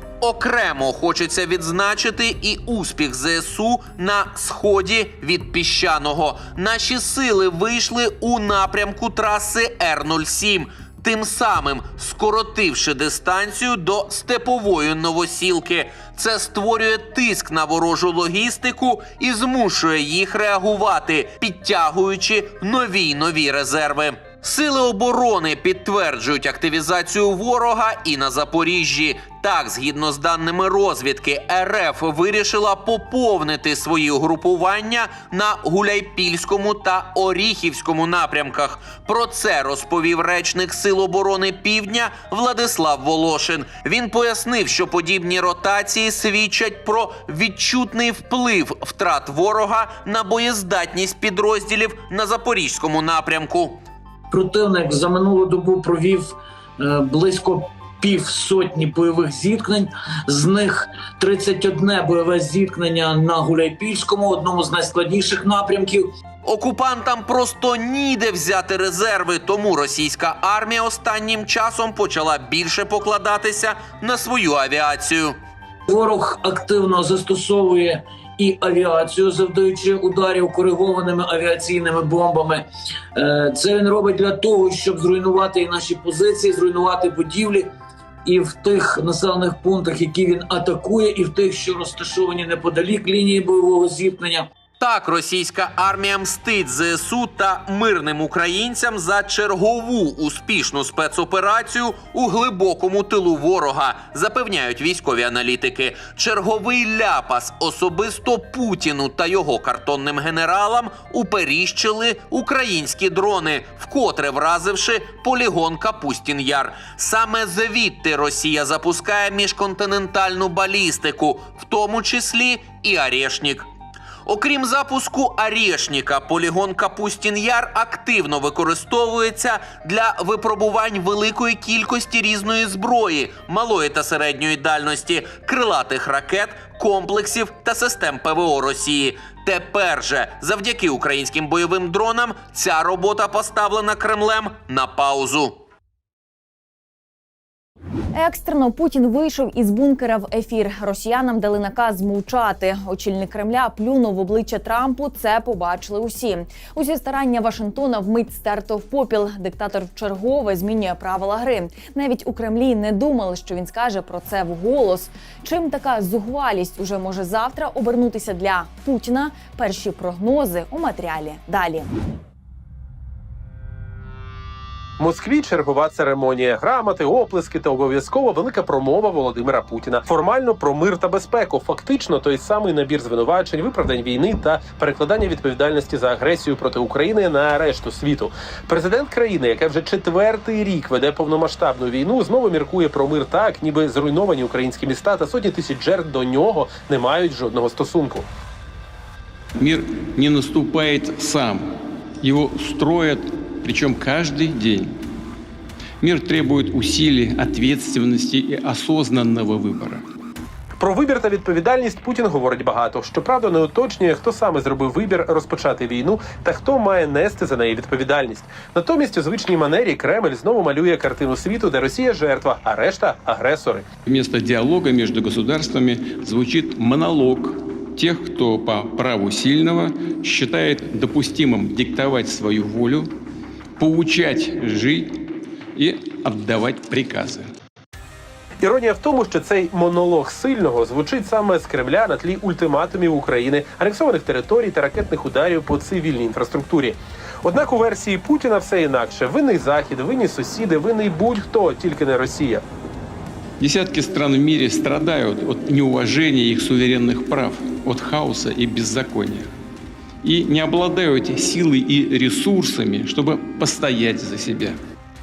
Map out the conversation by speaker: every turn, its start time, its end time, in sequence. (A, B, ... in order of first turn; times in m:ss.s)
0:00.2-0:53.8 A
0:54.3-1:06.1 B
1:06.4-1:15.4 A
1:15.9-1:27.7 B
1:28.2-1:34.5 B
1:34.8-2:03.7 A
2:04.3-2:25.6 A
2:28.1-2:51.9 C
2:55.0-3:18.3 D
3:19.6-3:24.9 E
3:26.0-3:30.0 E
3:30.8-3:43.8 D
3:44.1-3:53.1 E
3:53.8-3:55.2 E
3:55.8-3:57.5 E
3:58.6-4:12.6 D
4:13.6-4:19.5 E
4:20.2-4:24.8 E